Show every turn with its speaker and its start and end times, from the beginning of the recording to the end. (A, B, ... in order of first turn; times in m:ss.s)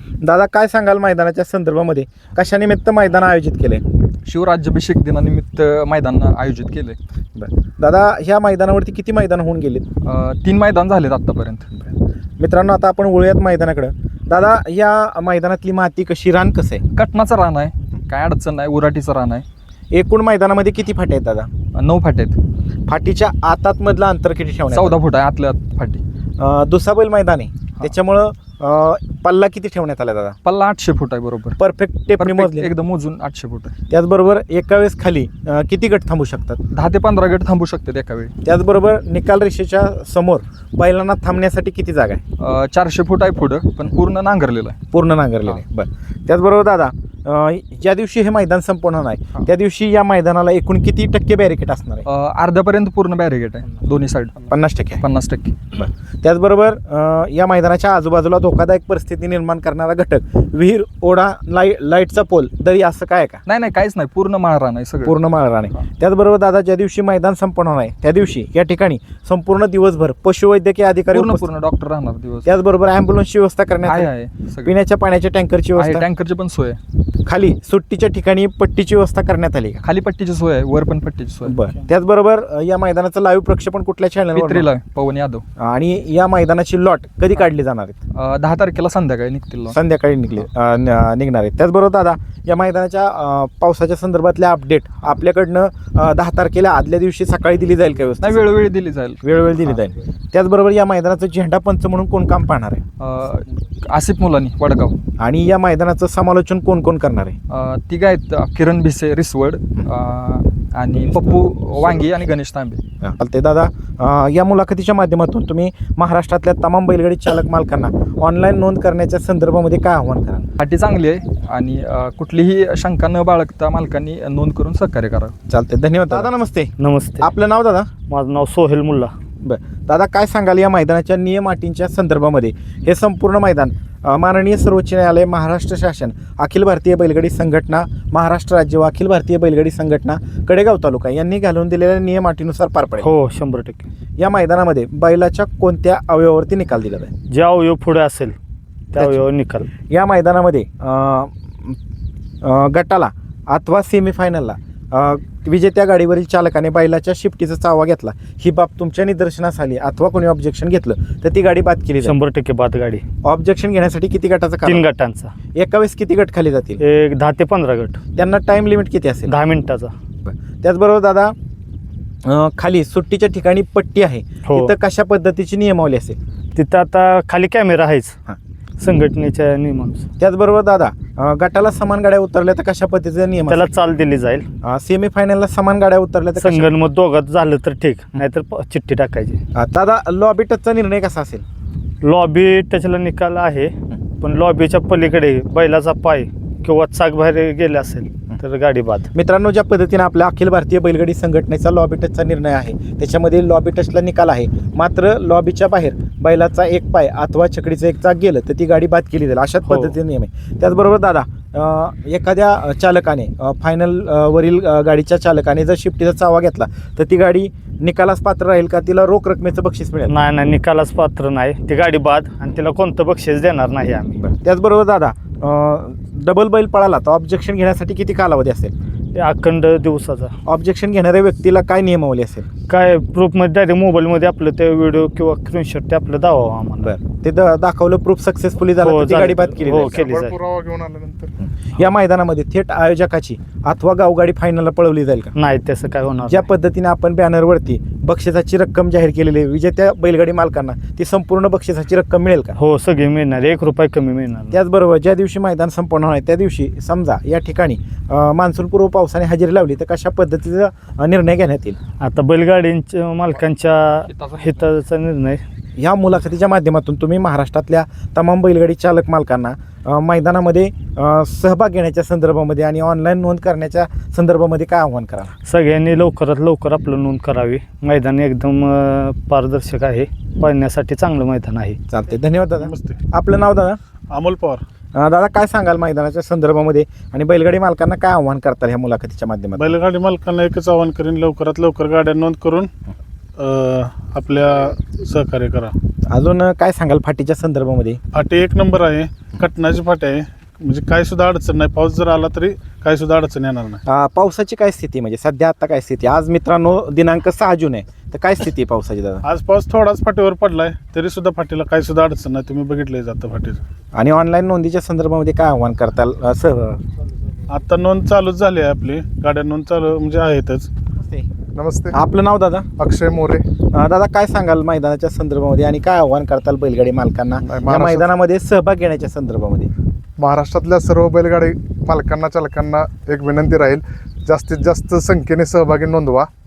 0:00.2-0:03.8 A
0:04.2-0:07.0 B
0:07.4-0:09.8 A
0:10.0-0:11.7 B
0:11.8-0:16.8 A
0:16.9-0:19.4 B
0:19.9-0:21.5 A
0:21.7-0:22.4 B
0:22.9-0:25.0 A
0:24.7-0:26.0 B
0:26.4-0:30.4 A
0:30.4-0:31.6 B
0:31.6-0:32.7 A
0:32.2-0:33.7 B
0:33.9-0:36.6 A
0:36.7-0:38.3 B
0:38.4-0:42.2 A
0:42.4-0:44.8 B
0:44.9-0:52.1 A
0:52.1-0:54.4 B
0:54.5-0:55.0 A
0:55.0-0:55.6 B
0:55.7-1:03.4 A
1:03.5-1:05.2 B
1:05.0-1:11.5 A
1:11.1-1:12.5 B
1:12.4-1:14.1 A
1:13.8-1:14.7 B
1:14.6-1:16.0 A
1:15.7-1:16.8 B
1:17.2-1:19.8 A
1:19.8-1:21.6 B
1:21.5-1:24.7 A
1:24.3-1:25.4 B
1:25.6-1:28.0 A
1:28.2-1:29.8 B
1:29.7-1:38.5 A
1:38.2-1:39.2 B
1:39.2-1:42.8 A
1:43.0-1:45.0 B
1:45.2-1:47.4 A
1:47.5-1:52.8 B
1:53.0-2:00.5 A
2:00.6-2:05.3 B
2:05.5-2:07.9 A
2:06.8-2:07.3 C
2:08.1-2:09.1 C
2:09.4-2:23.1 A
2:23.0-2:23.8 C
2:24.2-2:27.1 A
2:27.3-2:28.4 C
2:28.9-2:29.6 C
2:29.9-2:31.8 A
2:32.4-2:42.2 A
2:42.0-2:43.0 C
2:43.2-2:44.8 A
2:44.7-2:45.3 C
2:45.5-2:46.8 A
2:46.9-2:48.0 C
2:48.2-2:49.3 A
2:49.6-2:49.9 C
2:50.2-2:51.3 A
2:52.2-2:56.2 A
2:56.6-2:58.1 C
2:58.8-3:00.0 C
3:00.2-3:03.7 A
3:03.6-3:04.4 C
3:04.6-3:06.7 A
3:06.4-3:09.4 C
3:09.5-3:11.4 A
3:12.0-3:13.7 C
3:14.2-3:19.1 C
3:19.1-3:40.1 A
3:40.1-3:44.1 C
3:44.2-3:48.7 A
3:49.2-3:50.3 C
3:50.5-3:52.5 A
3:52.7-3:56.8 C
3:56.8-4:00.1 A
3:58.8-4:00.4 C
3:59.9-4:01.3 D
4:01.4-4:05.3 A
4:05.4-4:06.3 C
4:06.2-4:12.6 A
4:12.6-4:14.5 C
4:14.5-4:21.8 A
4:22.0-4:25.4 C
4:23.3-4:24.7 B
4:25.8-4:35.3 A
4:35.5-4:41.8 C
4:41.9-4:43.8 A
4:42.6-4:43.0 E
4:44.1-4:44.6 E
4:45.0-4:49.7 A
4:49.6-4:52.7 E
4:53.4-4:55.8 E
4:56.1-4:58.0 A
4:58.1-5:03.8 E
5:03.9-5:09.2 A
5:09.2-5:13.6 E
5:13.9-5:16.8 A
5:17.5-5:20.7 E
5:21.0-5:21.3 A
5:21.5-5:22.0 D
5:21.9-5:22.7 A
5:22.8-5:23.5 D
5:23.7-5:29.7 A
5:27.4-5:28.1 D
5:30.2-5:36.3 D